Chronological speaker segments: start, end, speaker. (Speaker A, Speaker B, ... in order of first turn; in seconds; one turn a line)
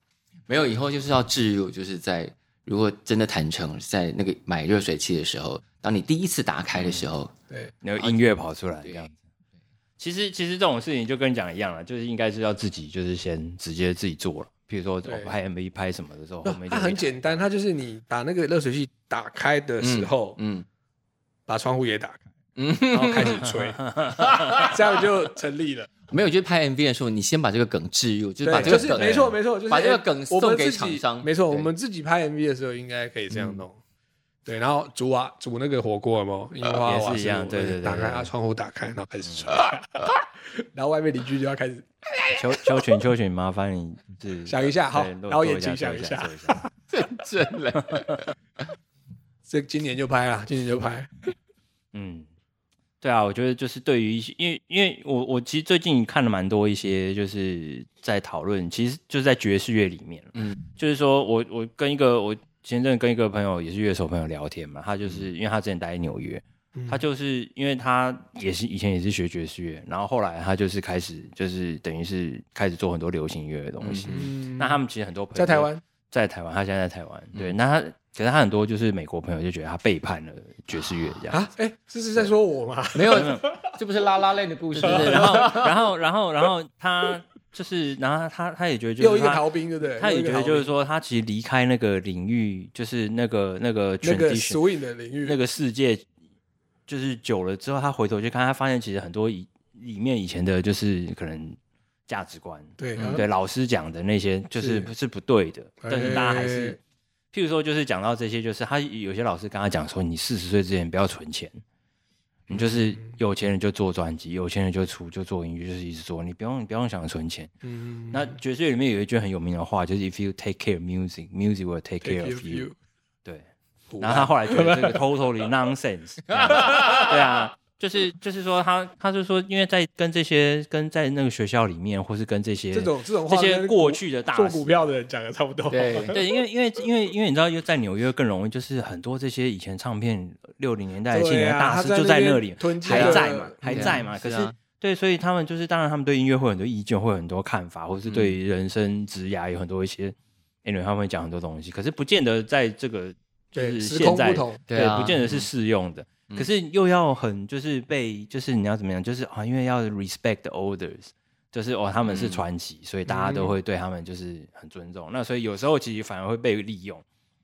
Speaker A: 0.5-7.3
Speaker B: 6.8-7.0
Speaker B: 7.8-9.2
Speaker B: 10.0-17.4
Speaker C: 15.0-15.3
Speaker C: 16.4-20.4
Speaker A: 19.8-20.7
Speaker C: 21.5-22.2
Speaker A: 22.6-23.5
Speaker B: 22.9-24.7
Speaker C: 23.0-23.8
Speaker A: 24.2-25.0
Speaker C: 24.5-25.9
Speaker A: 26.1-31.7
Speaker C: 28.4-33.8
Speaker B: 28.5-29.3
Speaker C: 34.5-42.9
Speaker B: 36.8-38.3
Speaker B: 39.2-39.5
Speaker B: 42.4-46.6
Speaker C: 44.5-46.7
Speaker A: 46.9-48.4
Speaker C: 49.5-51.1
Speaker B: 51.9-52.3
Speaker B: 53.0-81.4
Speaker A: 60.4-60.7
Speaker C: 66.8-67.0
Speaker A: 73.8-74.2
Speaker C: 74.1-74.8
Speaker C: 75.3-75.8
Speaker A: 80.8-81.1
Speaker C: 81.3-83.8
Speaker A: 83.0-85.8
Speaker B: 83.1-83.4
Speaker B: 84.8-94.6
Speaker C: 84.8-85.7
Speaker C: 89.0-90.7
Speaker C: 94.0-95.4
Speaker B: 95.2-96.1
Speaker B: 96.9-106.8
Speaker C: 102.8-103.3
Speaker A: 103.0-103.2
Speaker C: 104.6-104.9
Speaker C: 105.8-106.8
Speaker B: 107.3-111.6
Speaker B: 112.5-117.5
Speaker C: 112.5-113.0
Speaker C: 117.6-118.4
Speaker B: 118.1-122.7
Speaker C: 122.0-122.8
Speaker C: 123.9-125.1
Speaker B: 124.0-134.7
Speaker A: 126.3-127.2
Speaker C: 126.5-127.0
Speaker C: 132.7-136.2
Speaker A: 135.7-136.2
Speaker B: 136.1-167.0
Speaker C: 141.1-144.0
Speaker A: 142.9-144.6
Speaker A: 148.1-148.3
Speaker C: 153.5-154.6
Speaker A: 154.7-155.5
Speaker A: 162.1-162.4
Speaker C: 163.1-163.6